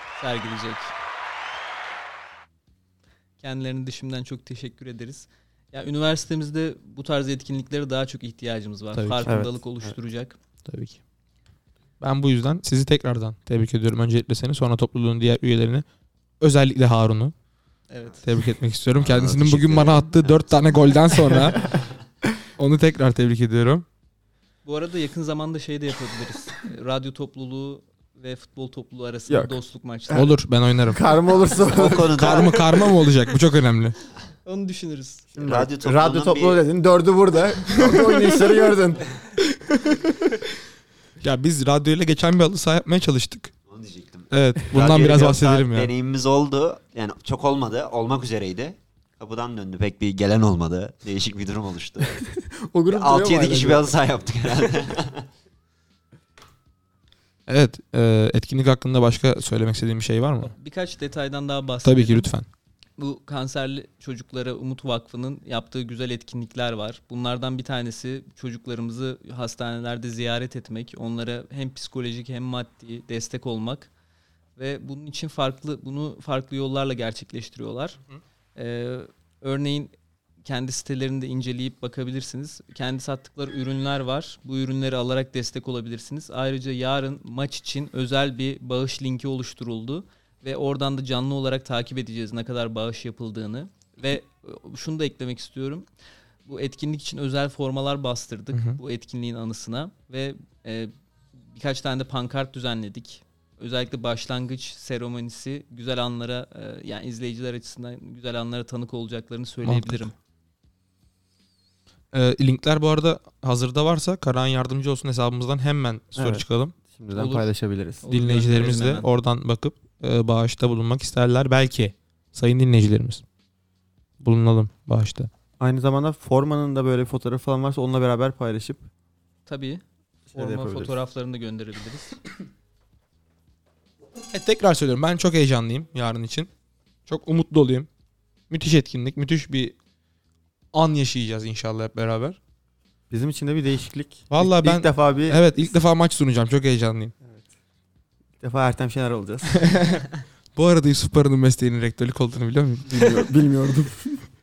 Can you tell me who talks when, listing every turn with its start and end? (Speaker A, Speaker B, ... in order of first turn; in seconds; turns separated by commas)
Speaker A: 0.1-0.9, Speaker A: 3.4-10.4, Speaker B: 8.9-9.3, Speaker C: 9.2-9.9, Speaker B: 10.7-11.0, Speaker B: 12.0-15.8, Speaker B: 16.4-17.3, Speaker A: 17.9-18.2, Speaker B: 18.2-21.6, Speaker D: 18.9-20.9, Speaker B: 22.6-23.8, Speaker A: 24.6-30.3, Speaker C: 29.3-29.5, Speaker C: 30.1-30.3, Speaker B: 30.1-31.0, Speaker C: 30.9-32.4, Speaker D: 31.6-32.7, Speaker B: 32.1-34.0, Speaker A: 34.4-35.3, Speaker C: 35.3-39.1, Speaker D: 35.4-36.6, Speaker B: 39.7-40.0, Speaker B: 41.2-43.5, Speaker D: 43.7-52.2, Speaker B: 44.3-45.9, Speaker C: 52.6-53.9, Speaker D: 52.9-55.3, Speaker B: 57.5-60.5, Speaker A: 60.4-62.3, Speaker B: 61.8-62.5, Speaker A: 63.0-73.9, Speaker A: 74.6-78.0, Speaker A: 78.5-79.9, Speaker A: 80.4-95.9, Speaker A: 96.5-100.9, Speaker B: 98.5-98.8, Speaker A: 101.5-110.1, Speaker B: 109.6-110.1, Speaker B: 112.1-116.7, Speaker C: 116.1-118.0, Speaker A: 117.1-117.5, Speaker A: 118.0-119.1, Speaker B: 118.1-123.2, Speaker B: 124.2-125.3, Speaker C: 125.6-128.8, Speaker A: 129.5-129.8, Speaker C: 130.3-130.9, Speaker A: 130.3-132.2, Speaker B: 134.3-136.5, Speaker B: 137.1-137.9, Speaker B: 138.5-139.7, Speaker B: 140.7-142.4, Speaker C: 143.1-145.4, Speaker B: 144.3-147.1, Speaker C: 148.4-149.7, Speaker B: 149.5-153.2, Speaker C: 152.9-154.2